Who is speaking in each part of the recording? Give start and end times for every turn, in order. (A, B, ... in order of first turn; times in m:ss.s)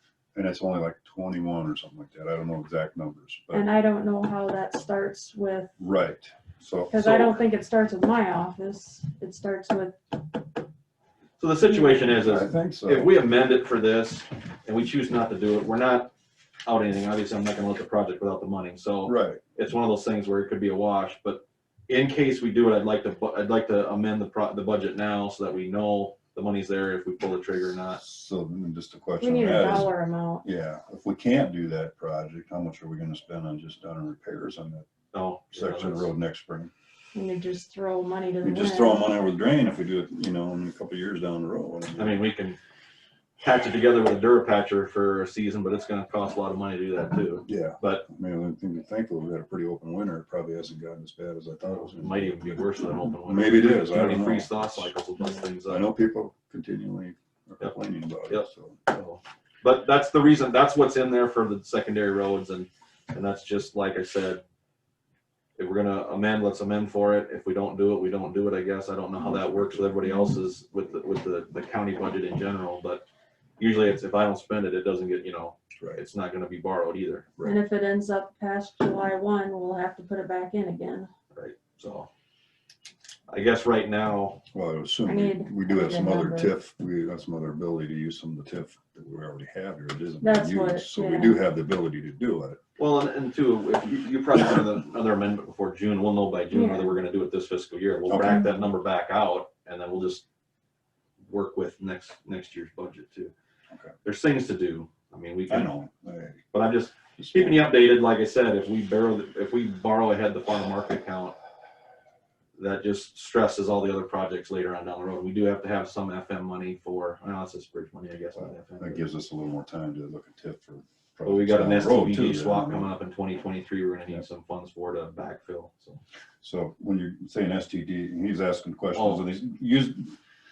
0:00.3-0:03.6 A
0:03.5-0:05.7 B
0:05.8-0:07.4 A
0:06.9-0:10.0 B
0:11.4-0:16.1 C
0:12.1-0:13.1 A
0:16.7-0:28.0 C
0:19.0-0:19.4 A
0:28.0-0:29.9 A
0:29.2-0:30.4 B
0:30.4-0:34.9 A
0:35.1-0:36.1 C
0:35.5-0:36.7 A
0:37.1-0:39.1 B
0:38.4-0:42.2 A
0:42.0-0:42.6 C
0:43.4-0:48.0 C
0:47.4-0:54.9 A
0:51.9-0:55.8 C
0:55.7-0:58.8 A
0:58.3-1:04.4 C
1:05.6-1:13.0 C
1:09.2-1:10.1 A
1:13.6-1:17.3 C
1:17.4-1:21.1 B
1:21.3-1:22.1 C
1:23.3-1:24.4 C
1:24.5-1:32.6 A
1:25.1-1:26.5 B
1:30.2-1:31.4 B
1:32.8-1:40.2 C
1:36.5-1:37.0 B
1:38.1-1:38.5 A
1:41.3-1:43.3 C
1:44.0-1:45.7 C
1:45.5-1:46.4 A
1:46.5-1:51.4 C
1:47.2-1:47.7 A
1:52.6-1:59.0 C
1:58.4-2:02.9 A
2:01.3-2:06.0 C
2:06.4-2:10.1 A
2:08.9-2:09.4 C